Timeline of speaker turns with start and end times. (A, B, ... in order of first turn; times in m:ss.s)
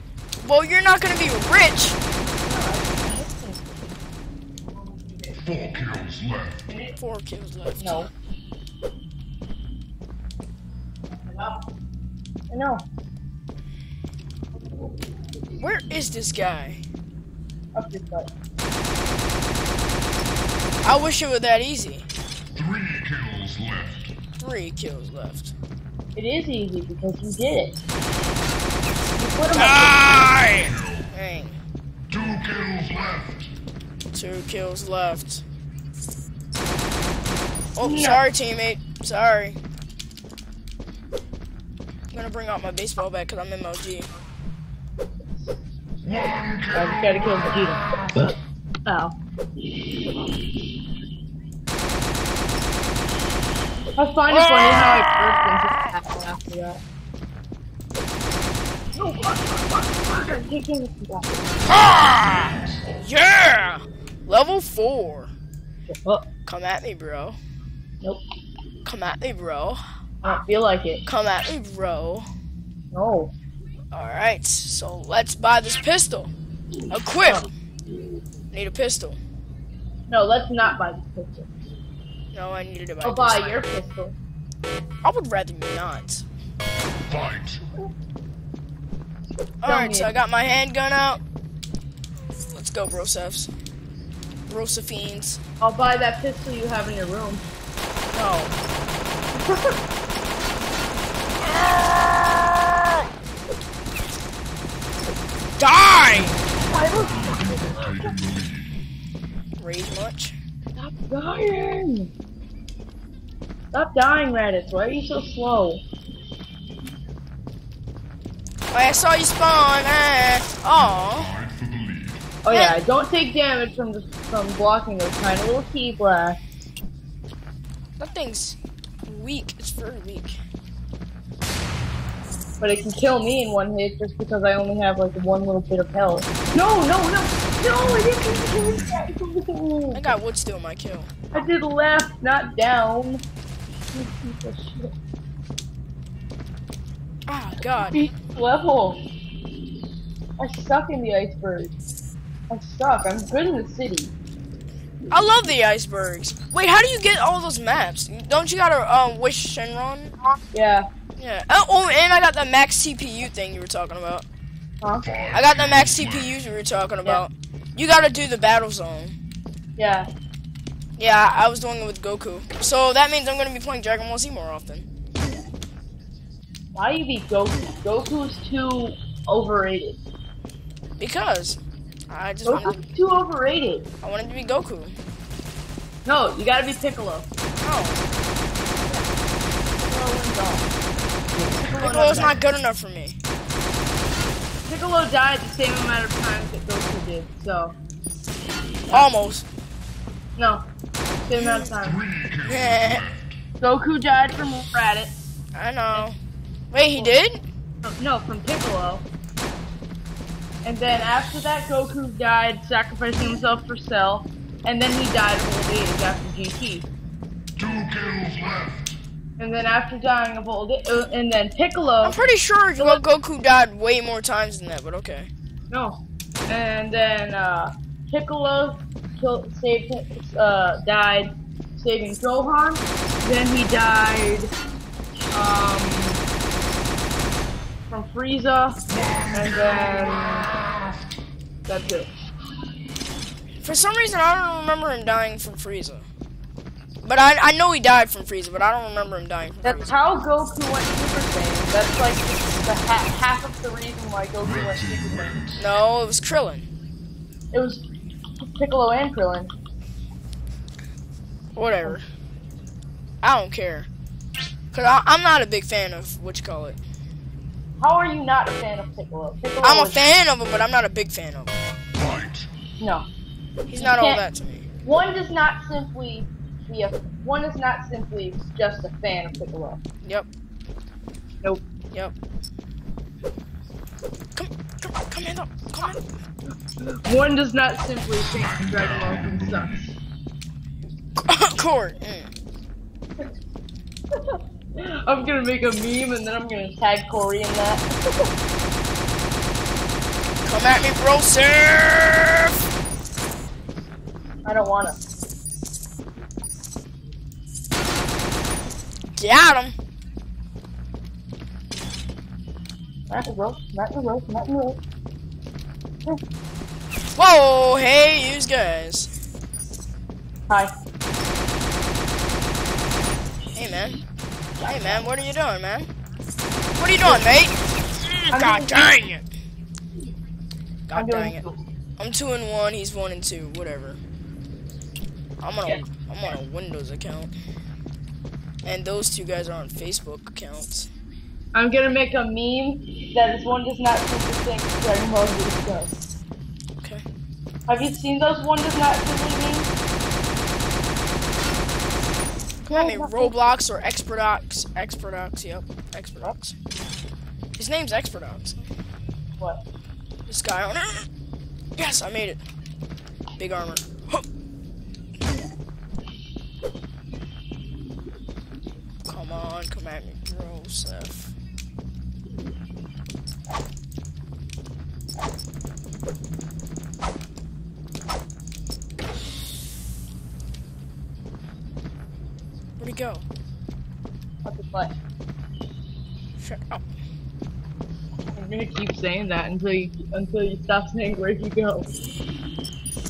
0:00.4-0:02.0 A
0:02.3-0:04.0 B
0:05.4-0:06.6 C
0:07.0-0:08.1 A
0:07.8-0:08.1 B
0:12.5-0:12.8 B
0:15.6-0:16.8 A
0:17.8-0:18.3 B
0:20.8-0:22.1 A
0:22.5-0:24.1 C
0:24.4-0:25.5 A
0:26.2-0:27.8 B
0:29.2-0:30.0 B
0:29.5-0:31.6 A
0:30.7-0:31.1 C
0:32.1-0:33.5 C
0:34.1-0:35.4 A
0:37.8-0:39.6 A
0:37.8-0:38.2 B
0:42.1-0:44.1 A
0:46.0-0:46.7 C
0:46.7-0:48.4 B
0:48.9-0:49.2 B
0:54.0-0:56.8 B
0:54.3-0:55.0 A
0:59.0-1:01.5 B
1:01.7-1:05.3 A
1:05.9-1:06.3 B
1:06.5-1:07.4 A
1:08.8-1:09.8 A
1:10.2-1:11.0 B
1:11.0-1:12.3 A
1:12.9-1:13.3 B
1:13.9-1:16.3 A
1:16.9-1:17.5 A
1:18.5-1:19.2 A
1:20.1-1:21.6 B
1:22.3-1:23.6 A
1:23.0-1:24.2 B
1:25.0-1:26.2 A
1:27.1-1:27.6 C
1:29.6-1:31.2 A
1:29.6-1:30.1 B
1:32.4-1:33.5 A
1:34.5-1:35.4 A
1:35.6-1:37.4 B
1:38.1-1:38.6 A
1:39.4-1:39.8 B
1:45.6-1:46.4 A
1:46.6-1:48.1 B
1:47.2-1:48.7 C
1:49.6-1:50.4 A
1:50.8-1:52.1 B
1:53.7-1:55.8 B
1:58.7-2:01.3 A
2:00.8-2:02.2 C
2:02.4-2:06.4 B
2:02.5-2:02.8 A
2:08.0-2:10.4 A
2:12.6-2:20.0 B
2:19.9-2:21.1 A
2:21.3-2:23.2 B
2:23.9-2:24.9 B
2:27.3-2:28.1 A
2:27.9-2:29.0 B
2:30.4-2:31.8 B
2:32.5-2:34.1 B
2:35.1-2:40.1 A
2:40.5-2:40.9 B
2:41.2-2:44.3 A
2:45.1-2:46.4 C
2:45.3-2:49.2 A
2:49.8-2:50.1 B
2:51.0-2:54.9 A
2:56.7-3:00.0 B
3:01.0-3:02.8 A
3:02.4-3:03.9 B
3:04.0-3:05.0 A
3:06.1-3:07.3 B
3:07.6-3:08.0 A
3:09.7-3:10.7 B
3:11.4-3:12.4 B
3:11.6-3:13.2 A
3:14.7-3:17.8 B
3:18.9-3:19.5 A
3:20.4-3:20.6 B
3:21.3-3:22.0 B
3:21.4-3:21.7 A
3:21.8-3:23.3 C
3:22.4-3:23.1 A
3:23.6-3:25.3 B
3:25.5-3:26.2 A
3:26.7-3:27.4 A
3:27.8-3:29.1 B
3:30.6-3:36.9 B
3:37.6-3:39.0 C
3:39.4-3:42.2 B
3:42.0-3:45.3 A
3:45.7-3:54.5 B
3:55.3-3:56.2 B
3:57.9-4:00.5 B
4:01.7-4:02.1 B
4:03.6-4:06.1 A
4:07.0-4:10.0 A
4:09.6-4:15.4 B
4:15.6-4:16.6 A
4:17.5-4:17.8 B
4:18.4-4:19.5 B
4:21.6-4:22.0 A
4:23.2-4:23.9 A
4:24.7-4:26.8 A
4:27.8-4:30.0 B
4:29.6-4:31.6 A
4:32.0-4:32.5 C
4:32.8-4:33.1 B
4:33.7-4:34.7 A
4:33.8-4:34.2 B
4:34.8-4:39.8 B
4:44.4-4:46.0 A
4:46.8-4:49.9 B
4:51.2-4:52.3 A
4:54.3-4:58.3 B
5:00.4-5:02.6 A
5:04.4-5:05.0 B
5:09.2-5:09.8 A
5:13.1-5:14.8 B
5:17.2-5:19.1 A
5:23.6-5:24.0 A
5:24.6-5:25.1 B
5:24.7-5:25.9 A
5:26.8-5:29.3 A
5:28.3-5:28.9 B
5:30.9-5:31.4 A
5:30.9-5:31.6 B
5:32.0-5:34.0 A
5:35.4-5:37.4 A
5:38.6-5:40.9 A
5:41.5-5:45.9 B
5:47.7-5:49.7 B
5:52.6-5:56.6 A
5:52.7-5:53.4 B
5:57.6-5:58.7 A
6:00.3-6:01.1 A
6:01.8-6:02.4 A
6:03.4-6:04.2 A
6:09.1-6:11.3 A
6:22.8-6:23.2 A
6:24.4-6:24.9 B
6:26.4-6:26.8 A
6:28.3-6:31.9 B